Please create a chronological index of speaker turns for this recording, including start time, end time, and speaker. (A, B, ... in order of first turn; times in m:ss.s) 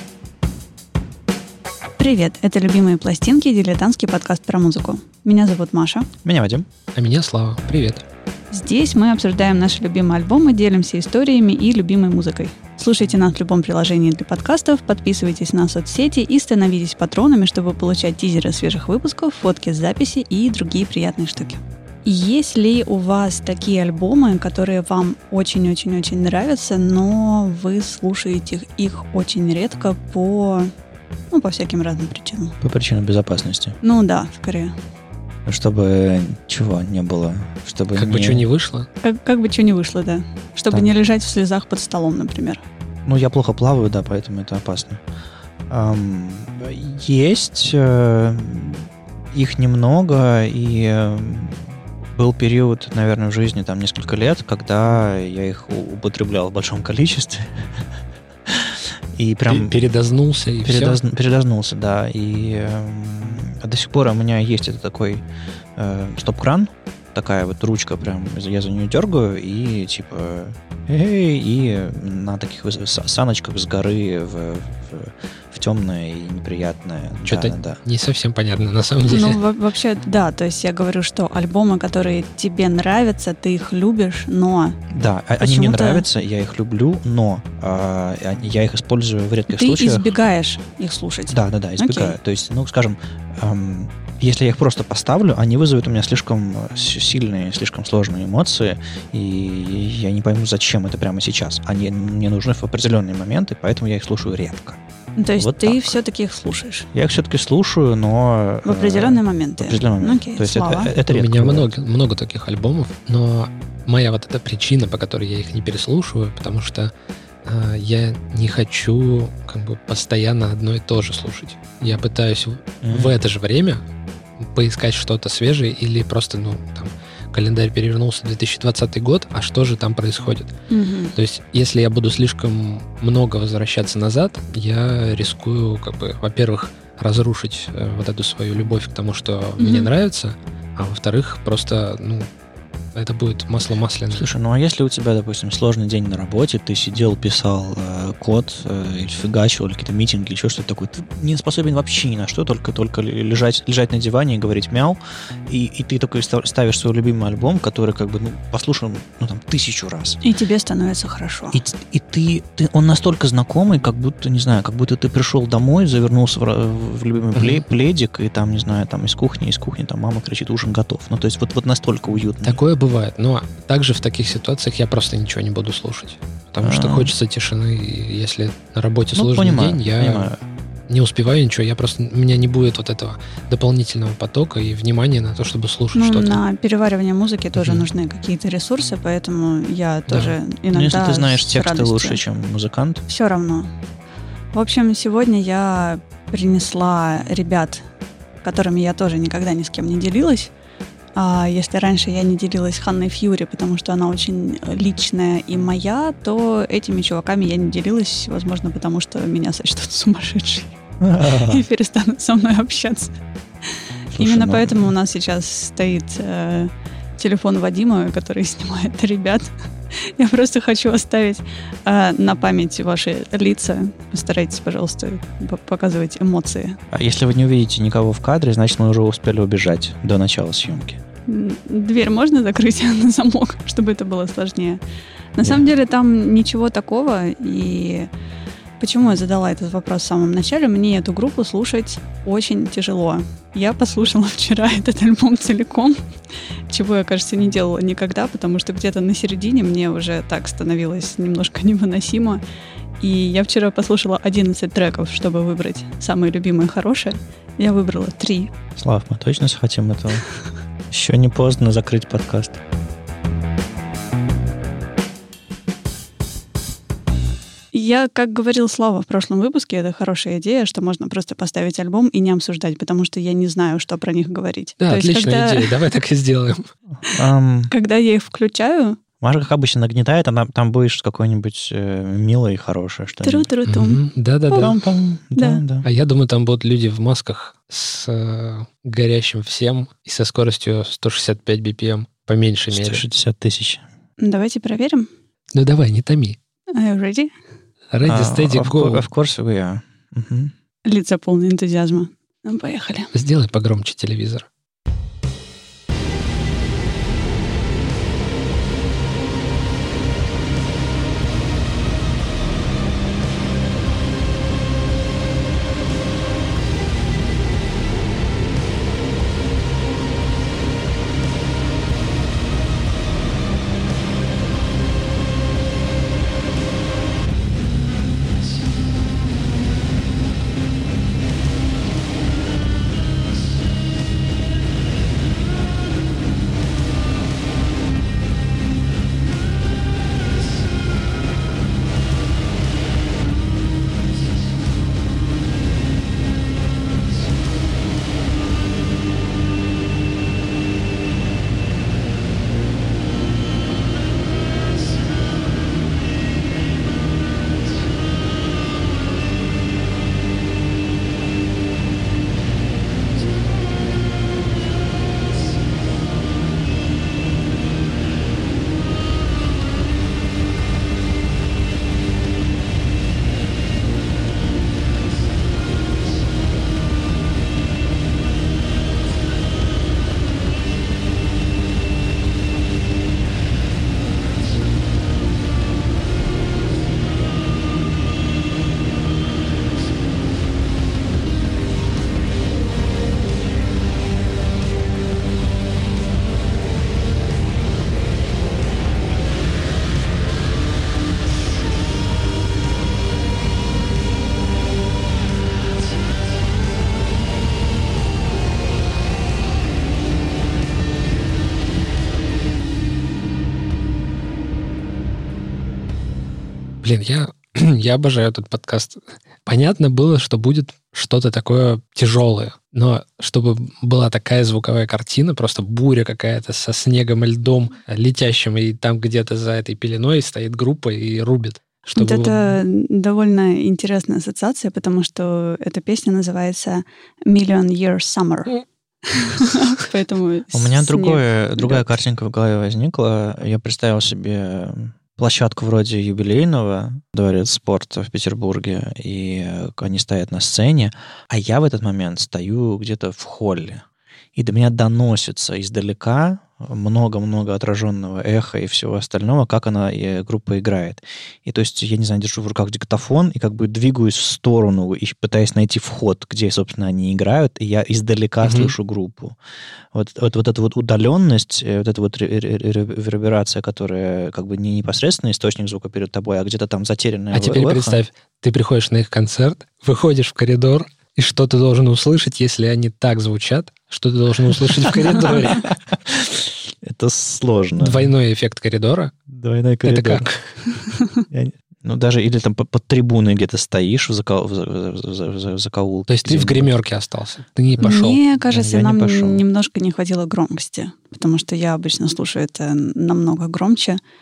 0:02.0-0:06.1 A
0:06.2-0:06.7 B
0:06.9-0:08.0 C
0:08.5-0:30.7 A
0:31.3-0:32.6 A
0:32.6-0:33.8 B
0:33.8-0:34.8 A
0:35.4-0:38.4 B
0:37.9-0:38.9 C
0:39.0-0:42.6 A
0:43.0-0:45.0 B
0:45.7-0:57.9 B
0:58.4-0:59.8 B
0:59.5-1:01.0 C
1:00.6-1:05.2 B
1:05.8-1:17.8 B
1:17.2-1:19.4 C
1:19.1-1:24.8 A
1:24.9-1:30.1 B
1:25.4-1:26.0 A
1:29.5-1:32.2 A
1:31.3-1:44.8 B
1:45.2-1:46.9 A
1:45.4-1:46.0 B
1:46.9-1:51.8 B
1:48.6-1:50.9 A
1:51.1-1:56.9 C
1:57.4-2:03.8 C
2:02.8-2:03.2 B
2:04.4-2:10.5 C
2:10.7-2:11.1 A
2:11.2-2:22.3 C
2:19.6-2:19.9 A
2:22.9-2:24.2 C
2:24.1-2:40.2 B
2:40.2-2:41.6 A
2:41.5-2:52.6 B
2:47.3-2:47.6 C
2:52.4-3:00.3 C
2:56.6-2:57.1 B
2:59.1-3:00.4 B
3:00.9-3:06.4 C
3:05.9-3:12.2 A
3:10.1-3:10.3 C
3:10.7-3:13.0 B
3:13.1-3:13.7 A
3:14.5-3:17.8 A
3:18.4-3:20.5 A
3:21.1-3:33.1 A
3:31.0-3:31.6 B
3:34.1-3:34.9 B
3:34.2-3:46.8 A
3:46.9-3:51.0 B
3:51.3-3:54.8 A
3:55.4-3:58.1 A
3:58.8-4:06.0 A
4:06.7-4:12.4 A
4:13.0-4:18.5 A
4:18.8-4:20.2 B
4:20.9-4:22.6 B
4:27.7-4:35.7 A
4:34.8-4:36.7 C
4:37.0-4:37.7 B
4:37.7-4:39.0 A
4:39.2-4:43.5 B
4:43.2-4:44.7 A
4:43.7-4:44.8 C
4:44.6-4:45.8 B
4:45.3-4:45.6 A
4:45.8-4:53.0 C
4:52.7-4:53.8 B
4:54.2-4:55.1 A
4:55.5-4:56.4 C
4:56.7-4:57.3 A
4:57.9-4:59.0 C
4:58.0-5:00.5 B
5:00.8-5:03.1 A
5:03.1-5:04.5 C
6:56.8-7:12.6 C
7:11.9-7:21.8 A
7:20.5-7:33.8 B
7:34.3-7:49.4 B
7:48.4-7:48.7 C
7:49.9-7:58.0 B
7:57.3-8:05.7 C
8:05.5-8:08.1 B
8:07.8-8:09.1 C
8:09.3-8:10.3 B
8:09.8-8:10.4 C
8:10.8-8:11.2 A
8:11.3-8:16.7 B
8:16.1-8:18.2 C
8:17.7-8:19.4 B
8:17.8-8:24.0 A